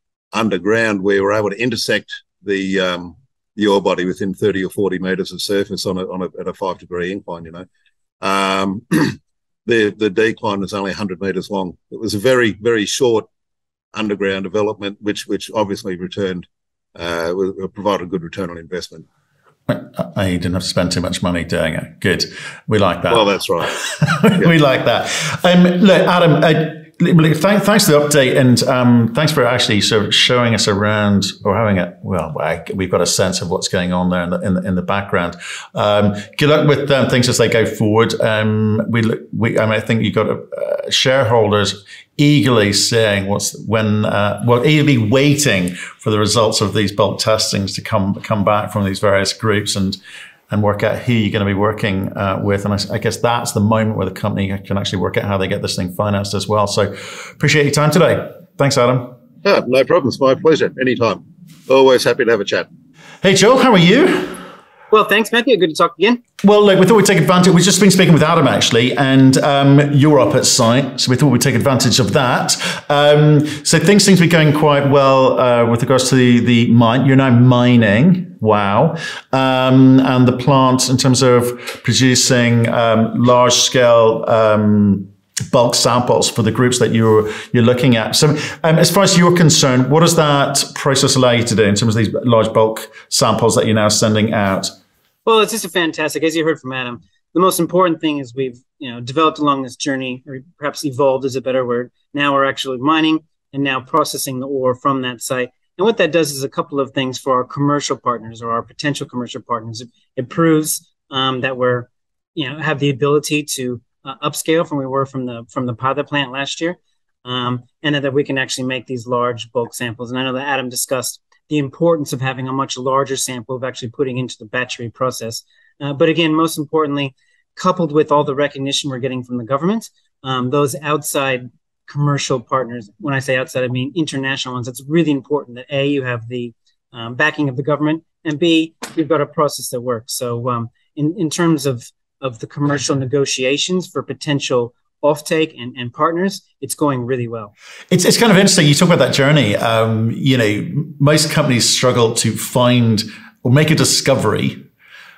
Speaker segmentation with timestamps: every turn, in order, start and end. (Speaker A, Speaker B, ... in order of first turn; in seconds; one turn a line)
Speaker A: 0.3-7.6
Speaker A: 8.2-13.2
Speaker A: 13.9-19.1
Speaker B: 19.7-50.0
Speaker A: 23.1-23.8
Speaker B: 50.5-59.1
Speaker A: 59.4-62.7
Speaker B: 63.2-64.4
Speaker C: 64.9-66.2
Speaker B: 66.4-94.7
Speaker C: 95.2-147.5
Speaker B: 147.9-154.6